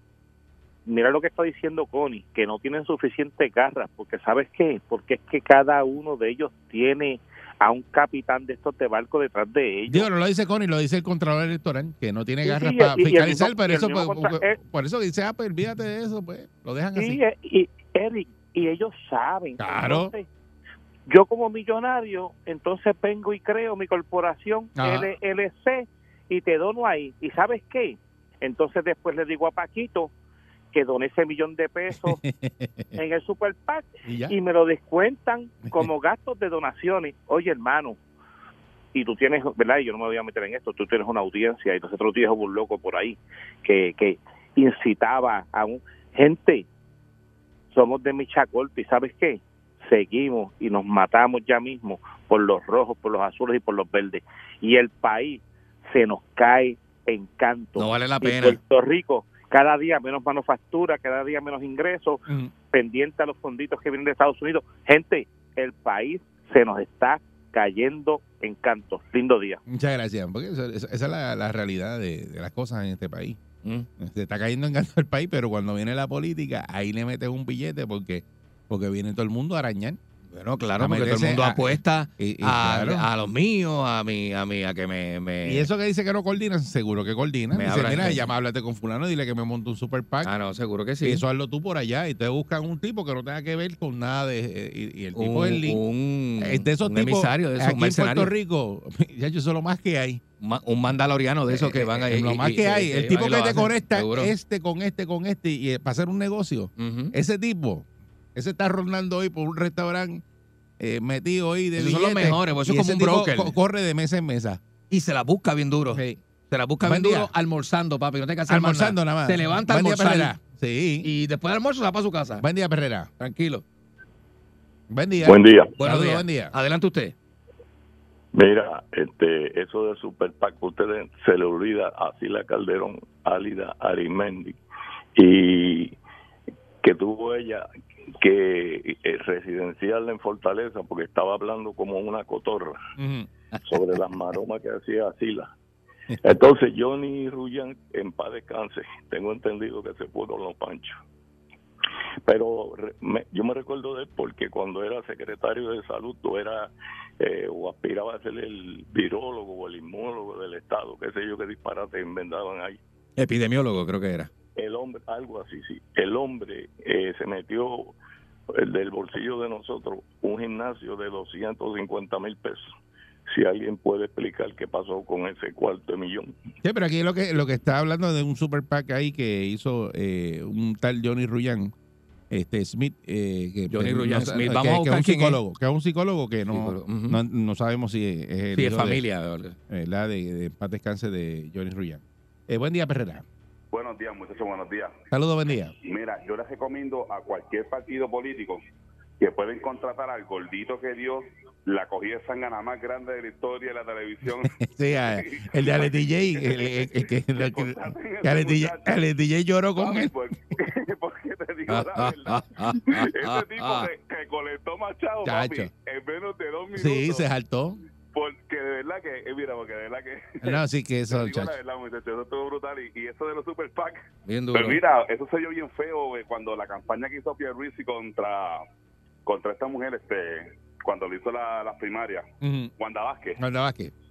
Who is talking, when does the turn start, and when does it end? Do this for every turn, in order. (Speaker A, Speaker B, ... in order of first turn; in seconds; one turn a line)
Speaker A: 0.8-10.1
Speaker B: 9.9-17.2
Speaker A: 12.4-14.6
Speaker A: 16.9-20.2
Speaker B: 19.6-20.1
Speaker A: 21.1-30.1
Speaker B: 24.8-25.1
Speaker A: 30.7-32.2
Speaker B: 32.0-33.0
Speaker A: 32.9-38.0
Speaker B: 34.0-34.3
Speaker A: 38.9-46.7
Speaker A: 47.7-69.6
Speaker C: 57.8-58.6
Speaker B: 62.3-62.5
Speaker B: 69.7-73.4
Speaker B: 74.0-80.0
Speaker C: 80.3-85.7
Speaker B: 80.8-83.0
Speaker B: 85.4-90.3
Speaker C: 87.5-88.2
Speaker C: 90.2-91.2
Speaker B: 91.0-95.8
Speaker C: 95.2-98.3
Speaker B: 96.4-100.2
Speaker C: 100.4-104.3
Speaker B: 101.5-110.2
Speaker C: 106.8-107.1
Speaker B: 110.8-114.6
Speaker C: 111.8-113.5
Speaker C: 114.9-120.3
Speaker B: 115.9-116.2
Speaker B: 116.8-117.3
Speaker B: 118.5-121.1
Speaker C: 121.0-122.4
Speaker B: 122.4-123.1
Speaker C: 123.2-123.6
Speaker B: 124.9-126.5
Speaker D: 125.2-125.7
Speaker C: 125.8-127.1
Speaker D: 128.3-134.6
Speaker D: 135.2-136.0
Speaker D: 136.8-137.7
Speaker D: 138.2-142.8
Speaker B: 143.0-143.3
Speaker D: 143.7-145.5
Speaker D: 146.2-151.0
Speaker D: 152.2-162.8
Speaker C: 163.2-164.3
Speaker D: 164.6-167.9
Speaker D: 168.5-172.7
Speaker D: 173.3-176.3
Speaker B: 176.6-181.7
Speaker B: 182.3-189.0
Speaker C: 183.7-185.4
Speaker C: 186.5-187.2
Speaker C: 188.5-189.6
Speaker B: 189.7-193.2
Speaker E: 193.7-194.9
Speaker B: 195.1-195.7
Speaker E: 195.8-198.6
Speaker E: 199.2-208.9
Speaker B: 204.4-210.1
Speaker E: 209.8-217.2
Speaker C: 211.7-213.9
Speaker B: 215.2-215.7
Speaker B: 216.7-217.8
Speaker E: 218.1-220.6
Speaker B: 220.4-221.6
Speaker E: 221.1-224.0
Speaker C: 224.2-224.8
Speaker E: 224.5-228.6
Speaker E: 229.2-232.2
Speaker B: 232.4-232.7
Speaker E: 232.8-233.4
Speaker B: 233.4-233.9